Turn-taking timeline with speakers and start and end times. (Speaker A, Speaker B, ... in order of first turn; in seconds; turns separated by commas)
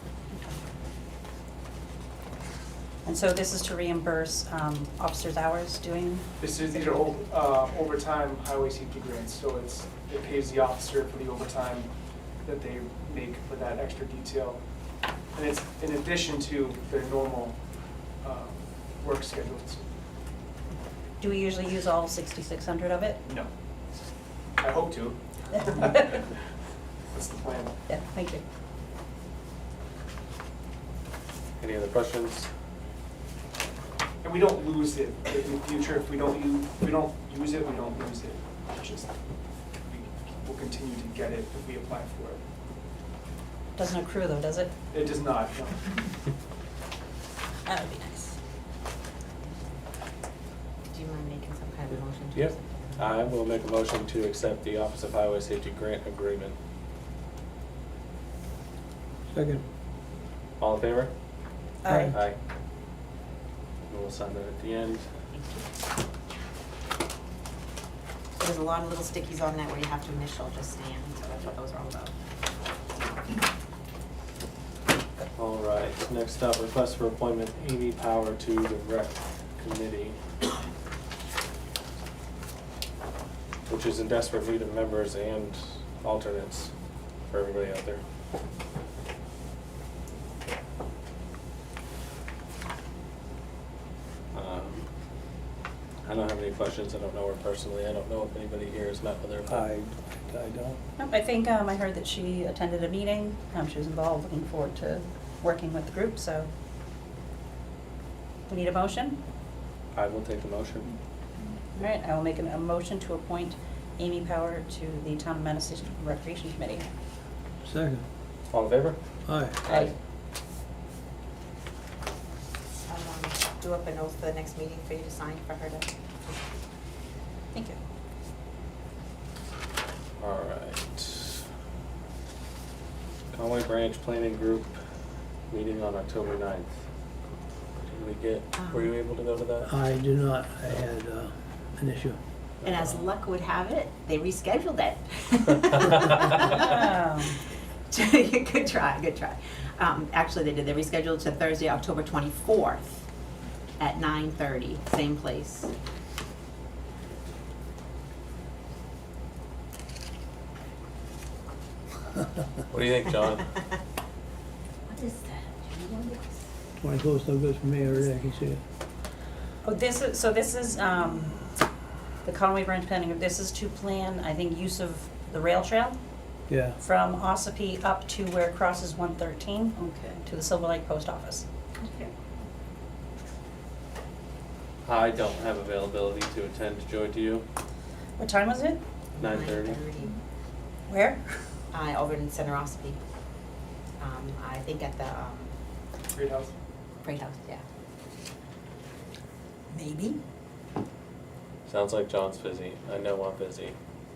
Speaker A: 3.0-6.4, Speaker B: 6.4-11.9, Speaker B: 12.4-14.6, Speaker B: 15.3-19.8, Speaker A: 21.2-23.2, Speaker B: 24.6-26.2, Speaker A: 25.5-26.2, Speaker B: 27.1-27.8, Speaker A: 27.9-28.4, Speaker C: 31.6-32.5, Speaker B: 34.2-39.1, Speaker B: 39.8-42.4, Speaker A: 43.8-44.7, Speaker B: 44.9-45.8, Speaker A: 47.6-48.4, Speaker D: 50.9-53.2, Speaker C: 52.3-56.5, Speaker E: 59.3-59.6, Speaker C: 60.6-61.1, Speaker A: 61.8-62.1, Speaker E: 61.9-62.1, Speaker C: 62.1-62.4, Speaker C: 63.8-65.1, Speaker D: 65.3-65.7, Speaker D: 68.3-72.1, Speaker C: 75.3-80.2, Speaker C: 83.7-86.7, Speaker C: 87.3-88.0, Speaker C: 94.3-94.9, Speaker C: 96.0-99.6, Speaker E: 99.5-100.8, Speaker A: 101.0-106.5, Speaker A: 108.5-109.2, Speaker C: 109.9-111.0, Speaker A: 111.8-116.9, Speaker E: 117.6-118.0, Speaker C: 118.5-119.0, Speaker E: 119.2-119.6, Speaker C: 119.6-119.9, Speaker D: 122.8-125.9, Speaker A: 127.5-127.8, Speaker C: 130.2-131.5, Speaker C: 133.3-134.8, Speaker C: 135.5-136.7, Speaker C: 137.9-139.7, Speaker D: 138.5-138.9, Speaker E: 139.6-142.2, Speaker C: 142.6-143.0, Speaker D: 142.6-146.6, Speaker A: 146.4-147.4, Speaker D: 147.9-153.0, Speaker D: 153.8-155.7, Speaker C: 162.7-163.5, Speaker D: 165.9-166.1, Speaker E: 166.8-168.6, Speaker A: 169.6-171.5, Speaker A: 172.2-176.0, Speaker E: 176.5-176.8, Speaker A: 176.8-181.4, Speaker D: 181.8-182.1, Speaker C: 184.8-187.4, Speaker A: 188.2-188.8, Speaker D: 189.1-190.2, Speaker C: 189.2-189.8, Speaker A: 190.9-191.2, Speaker D: 191.7-193.0, Speaker D: 194.0-195.5, Speaker B: 196.1-196.5, Speaker D: 197.0-197.6, Speaker A: 199.7-200.2, Speaker C: 201.7-203.8